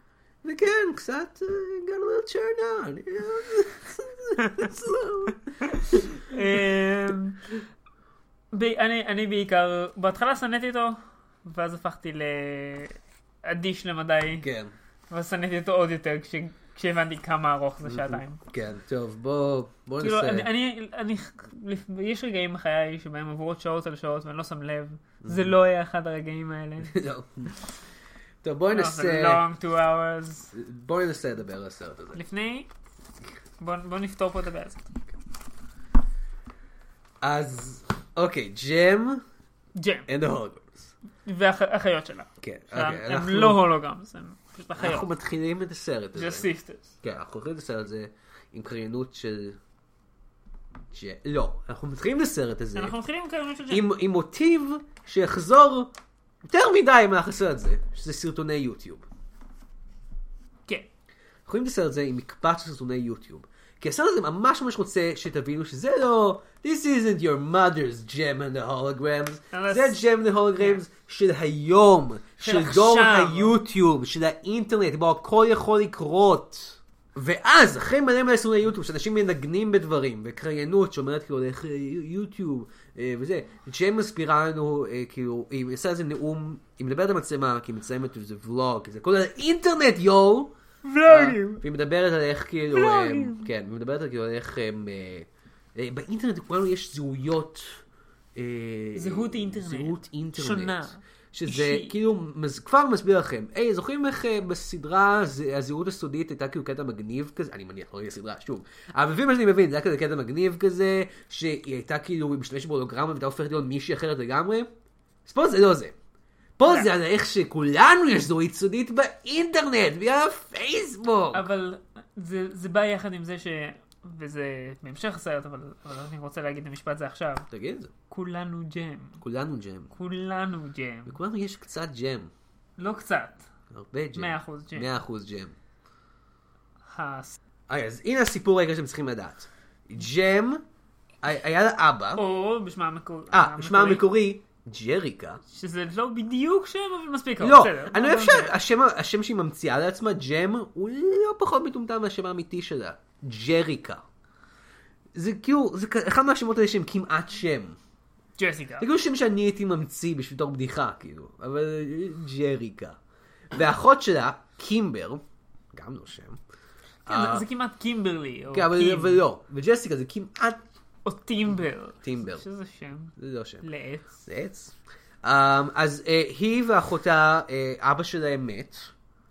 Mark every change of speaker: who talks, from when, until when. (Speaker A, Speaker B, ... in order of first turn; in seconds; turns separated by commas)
Speaker A: 0.4-6.0, Speaker B: 6.2-7.4, Speaker B: 8.5-14.5, Speaker A: 14.4-14.7, Speaker B: 15.1-18.4, Speaker A: 17.9-20.5, Speaker B: 20.0-27.0, Speaker A: 25.2-25.5, Speaker A: 26.9-27.6, Speaker A: 28.4-29.4, Speaker B: 28.7-30.5, Speaker A: 30.5-32.2, Speaker B: 32.1-32.7, Speaker B: 33.6-34.9, Speaker A: 37.2-39.2, Speaker B: 39.8-40.1, Speaker A: 40.1-40.9, Speaker B: 41.2-45.1, Speaker A: 42.4-43.6, Speaker A: 44.8-46.5, Speaker B: 46.2-46.9, Speaker A: 47.0-49.6, Speaker A: 50.9-53.0, Speaker B: 52.8-53.9, Speaker A: 53.7-55.9, Speaker A: 56.5-59.0, Speaker A: 61.5-90.5, Speaker B: 69.5-70.0, Speaker B: 70.6-70.8, Speaker B: 72.4-73.6, Speaker B: 90.8-91.6, Speaker A: 91.0-97.8, Speaker B: 92.7-93.5, Speaker A: 98.3-114.7, Speaker B: 99.0-101.9, Speaker A: 115.3-116.0, Speaker A: 116.6-121.5, Speaker B: 121.3-127.5, Speaker A: 127.5-127.9, Speaker B: 128.1-129.2, Speaker A: 129.2-129.9, Speaker B: 129.9-131.2, Speaker A: 131.1-132.3, Speaker B: 132.8-133.4, Speaker A: 133.7-135.5, Speaker B: 134.2-134.9, Speaker B: 136.9-137.4, Speaker A: 137.7-140.6, Speaker A: 141.2-142.2, Speaker B: 142.2-144.1, Speaker A: 143.3-145.4, Speaker B: 145.5-148.6, Speaker A: 147.4-154.0, Speaker A: 155.2-157.8, Speaker B: 158.4-158.9, Speaker A: 158.8-163.0, Speaker A: 163.5-166.4, Speaker A: 167.1-167.4, Speaker B: 167.1-169.2, Speaker A: 168.5-170.6, Speaker B: 171.1-174.1, Speaker A: 172.0-172.4, Speaker A: 173.2-173.7, Speaker A: 174.2-178.9